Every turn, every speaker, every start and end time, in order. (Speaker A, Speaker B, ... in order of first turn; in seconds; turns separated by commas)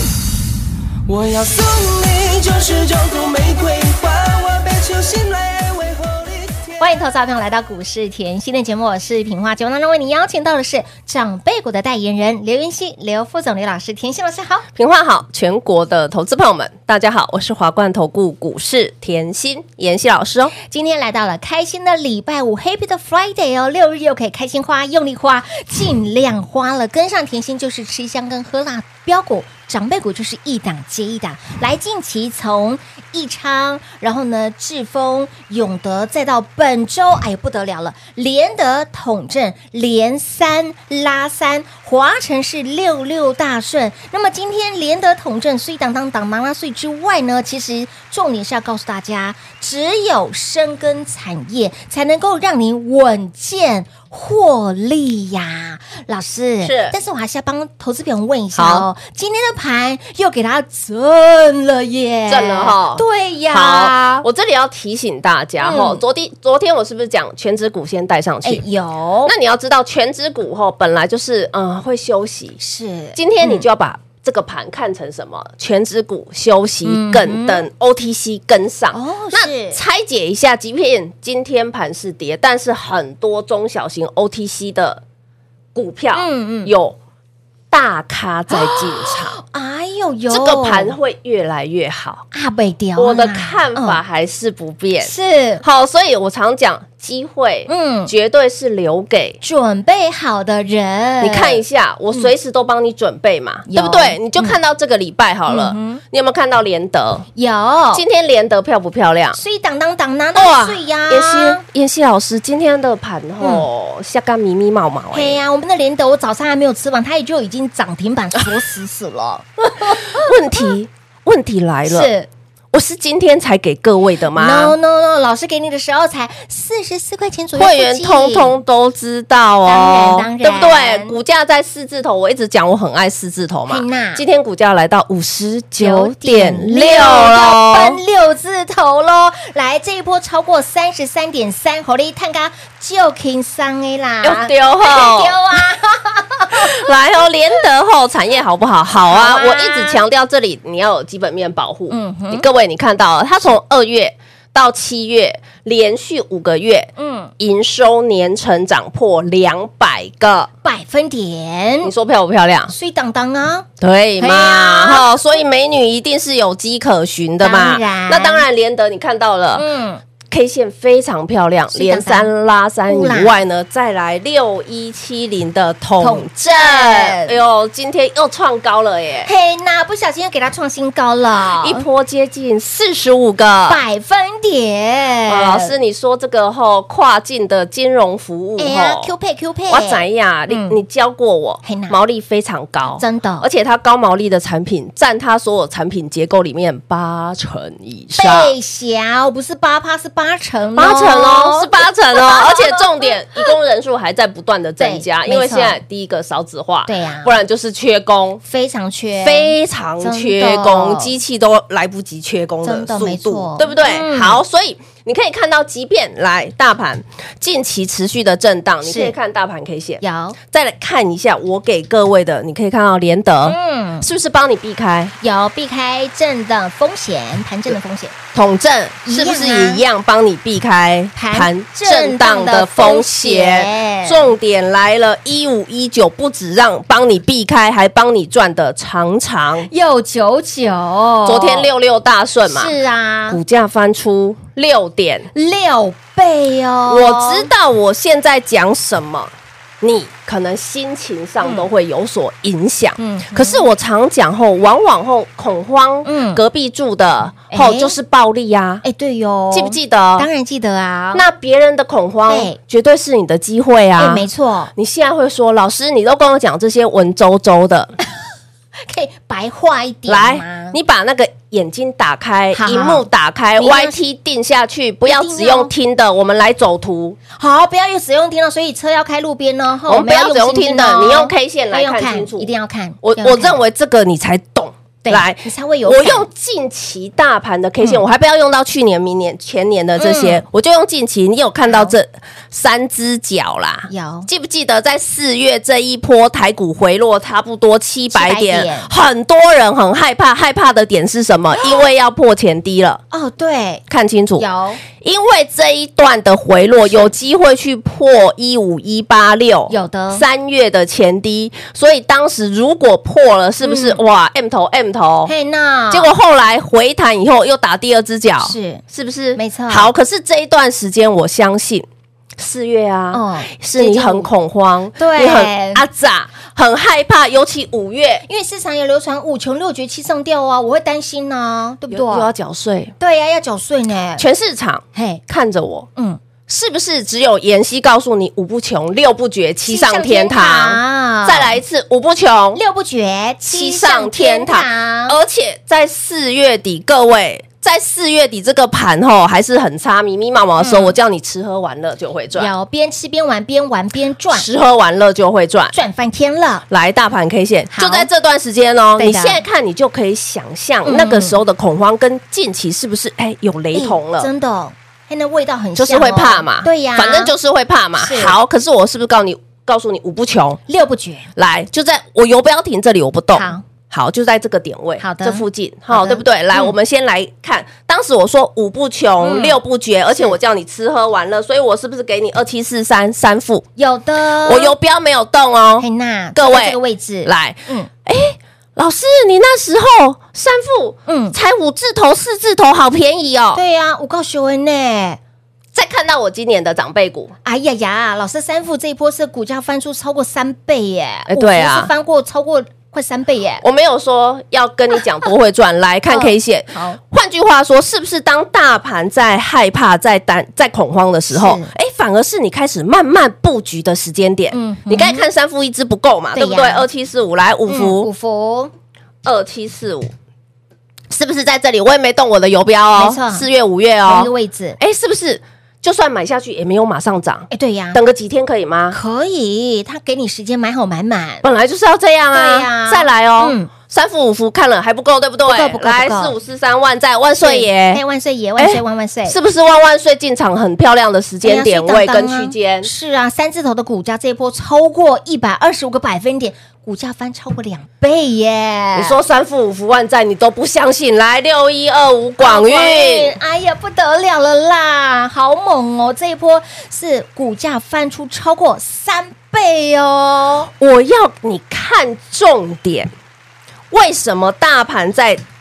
Speaker A: 1.1-6.8, Speaker B: 6.8-14.7, Speaker C: 14.8-20.6, Speaker B: 20.6-64.2, Speaker C: 56.6-57.0, Speaker C: 58.6-58.9, Speaker C: 62.3-68.6, Speaker B: 65.6-66.0, Speaker B: 68.4-69.3, Speaker C: 69.3-72.6, Speaker B: 72.6-73.7, Speaker C: 73.2-85.0, Speaker B: 76.8-77.7, Speaker B: 78.9-79.8, Speaker C: 85.8-87.0, Speaker B: 86.1-86.7, Speaker C: 87.7-89.4, Speaker B: 88.5-91.0, Speaker C: 90.3-92.2, Speaker B: 92.3-94.0, Speaker C: 93.0-99.4, Speaker B: 95.0-95.6, Speaker B: 97.7-98.1, Speaker B: 99.4-101.6, Speaker C: 101.2-107.3, Speaker B: 103.7-104.6, Speaker B: 105.5-106.0, Speaker B: 107.3-108.0, Speaker C: 107.9-109.4, Speaker B: 109.4-111.6, Speaker C: 110.3-115.4, Speaker B: 113.4-113.7, Speaker B: 115.1-120.3, Speaker C: 119.8-122.1, Speaker B: 121.9-122.3, Speaker C: 122.7-124.8, Speaker B: 124.3-128.6, Speaker C: 127.6-138.0, Speaker B: 129.7-131.2, Speaker B: 133.7-134.2, Speaker B: 135.8-146.9, Speaker C: 144.2-145.4, Speaker C: 146.6-160.5, Speaker B: 149.1-150.0, Speaker B: 151.9-152.4, Speaker B: 157.0-157.3, Speaker B: 160.6-161.9, Speaker C: 161.8-162.7, Speaker B: 162.7-163.7, Speaker C: 163.8-169.7, Speaker B: 164.2-165.1, Speaker B: 167.4-168.4, Speaker B: 169.6-170.0, Speaker C: 170.3-179.3, Speaker B: 171.7-172.3, Speaker B: 172.9-173.4, Speaker B: 176.0-177.4, Speaker B: 179.3-181.8, Speaker C: 181.6-183.8, Speaker B: 183.7-185.7, Speaker C: 185.3-189.1, Speaker B: 188.6-190.8, Speaker C: 189.7-198.5, Speaker B: 191.6-192.0, Speaker B: 192.9-193.5, Speaker B: 198.2-203.5, Speaker C: 200.8-208.4, Speaker B: 204.8-205.8, Speaker B: 206.9-207.4, Speaker B: 208.4-211.1, Speaker C: 209.2-220.0, Speaker B: 212.6-214.4, Speaker B: 218.8-219.2, Speaker B: 220.0-220.4, Speaker C: 220.5-225.1, Speaker B: 223.5-224.1, Speaker B: 225.2-228.2, Speaker C: 228.3-239.7, Speaker B: 229.1-229.8, Speaker B: 231.2-234.3, Speaker B: 239.7-241.7, Speaker C: 241.3-242.7, Speaker B: 242.5-243.4, Speaker C: 243.3-245.3, Speaker B: 245.3-247.5, Speaker C: 246.9-258.8, Speaker B: 251.4-251.7, Speaker B: 253.0-253.6, Speaker B: 256.1-256.4, Speaker B: 257.5-257.9, Speaker B: 258.8-261.3, Speaker C: 259.5-260.3, Speaker C: 261.1-267.9, Speaker B: 262.3-262.6, Speaker B: 264.0-264.7, Speaker B: 268.9-270.8, Speaker C: 270.1-277.2, Speaker B: 272.5-273.1, Speaker B: 273.6-274.0, Speaker B: 275.1-275.7, Speaker B: 277.4-283.6, Speaker C: 279.9-282.5, Speaker C: 283.0-303.0, Speaker B: 285.1-286.3, Speaker B: 290.0-290.4, Speaker B: 291.7-291.9, Speaker B: 293.9-294.3, Speaker B: 298.1-298.9, Speaker B: 303.1-303.8, Speaker C: 303.9-304.5, Speaker B: 304.4-304.8, Speaker C: 305.0-315.3, Speaker B: 306.9-307.1, Speaker B: 309.7-310.2, Speaker B: 313.6-314.0, Speaker B: 315.3-316.1, Speaker C: 315.9-321.9, Speaker B: 318.4-318.8, Speaker B: 319.4-319.9, Speaker C: 322.4-328.2, Speaker B: 323.1-324.3, Speaker B: 325.0-325.8, Speaker B: 328.3-332.3, Speaker C: 331.9-332.9, Speaker B: 333.0-334.2, Speaker C: 334.2-335.9, Speaker B: 334.9-335.2, Speaker C: 336.5-342.6, Speaker B: 339.7-341.6, Speaker B: 342.6-345.2, Speaker C: 343.5-352.5, Speaker B: 350.6-350.9, Speaker B: 352.4-354.5, Speaker C: 354.3-355.8, Speaker B: 355.7-356.6, Speaker C: 356.7-364.3, Speaker B: 357.7-358.1, Speaker B: 359.0-359.4, Speaker B: 360.9-361.4, Speaker B: 363.7-367.3, Speaker C: 365.8-370.6, Speaker B: 368.0-368.4, Speaker B: 370.7-371.3, Speaker C: 371.4-383.7, Speaker B: 373.3-373.6, Speaker B: 375.0-376.8, Speaker B: 379.2-379.6, Speaker B: 383.8-384.8, Speaker C: 384.4-393.6, Speaker B: 385.8-387.9, Speaker B: 391.1-391.4, Speaker B: 393.5-395.2, Speaker C: 395.7-397.3, Speaker B: 397.4-403.6, Speaker C: 401.3-401.9, Speaker C: 403.6-418.1, Speaker B: 406.1-407.0, Speaker B: 411.3-411.7, Speaker B: 414.5-415.2, Speaker B: 416.4-416.9, Speaker B: 417.7-418.7, Speaker C: 419.2-420.1, Speaker C: 421.1-429.0, Speaker B: 423.0-423.5, Speaker B: 424.1-424.8, Speaker B: 427.5-428.0, Speaker B: 428.9-431.5, Speaker C: 431.4-438.0, Speaker B: 432.3-433.7, Speaker B: 435.5-436.4, Speaker B: 437.4-439.4, Speaker C: 438.6-442.9, Speaker B: 441.4-449.2, Speaker C: 448.9-453.3, Speaker B: 452.4-460.7, Speaker C: 460.8-463.1, Speaker C: 463.9-465.4